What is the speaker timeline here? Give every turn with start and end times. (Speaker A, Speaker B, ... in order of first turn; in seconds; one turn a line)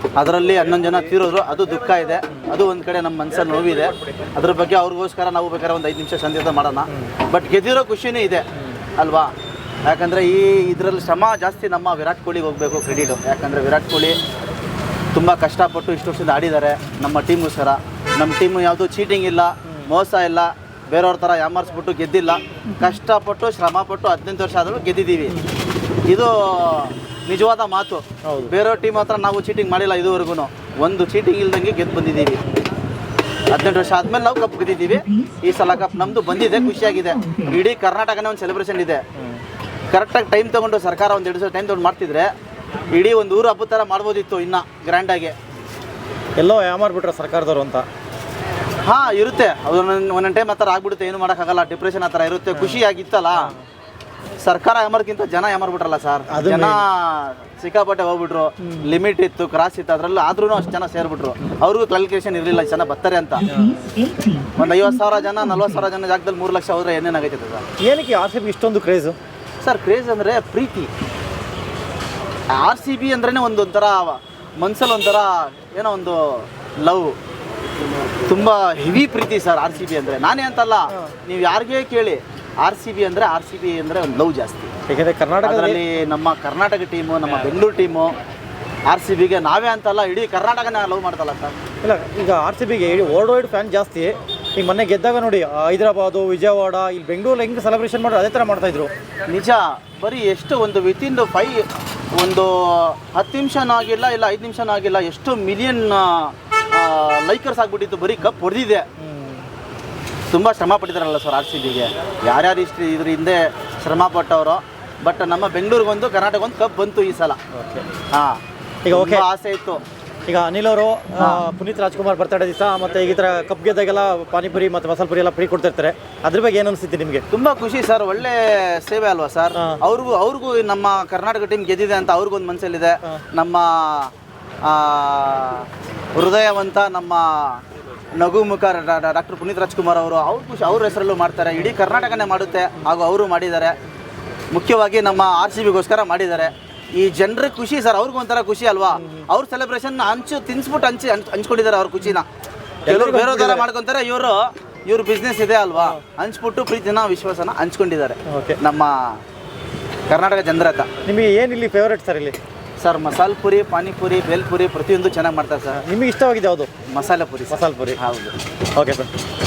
Speaker A: 0.2-8.4
Speaker A: 9.0-9.3
Speaker A: 9.9-14.2
Speaker A: 15.1-25.4
Speaker A: 26.1-32.4
Speaker B: 28.2-28.5
Speaker A: 33.5-39.0
Speaker A: 39.9-42.3
Speaker A: 42.9-45.4
Speaker B: 46.4-47.9
Speaker A: 48.9-53.5
Speaker B: 52.5-52.8
Speaker A: 54.4-63.5
Speaker B: 56.3-56.8
Speaker B: 58.6-58.9
Speaker B: 63.5-63.8
Speaker A: 64.5-67.6
Speaker B: 67.8-69.2
Speaker A: 69.6-70.9
Speaker A: 72.6-77.1
Speaker A: 78.3-84.7
Speaker B: 84.9-85.8
Speaker A: 85.4-88.1
Speaker A: 88.9-91.5
Speaker B: 91.8-98.9
Speaker A: 99.3-101.6
Speaker A: 102.2-108.9
Speaker B: 109.0-109.5
Speaker A: 110.3-117.4
Speaker B: 117.5-117.8
Speaker A: 118.1-119.8
Speaker B: 118.8-119.2
Speaker B: 120.3-127.2
Speaker A: 121.2-121.4
Speaker A: 127.3-134.1
Speaker B: 129.6-129.8
Speaker A: 134.7-137.6
Speaker A: 138.2-143.8
Speaker A: 144.5-152.3
Speaker B: 149.0-149.2
Speaker B: 152.9-153.7
Speaker A: 152.9-158.9
Speaker B: 158.3-158.6
Speaker A: 160.1-160.9
Speaker B: 161.1-162.4
Speaker A: 162.8-165.8
Speaker B: 165.7-166.7
Speaker A: 166.9-168.3
Speaker B: 167.5-168.0
Speaker B: 168.8-169.1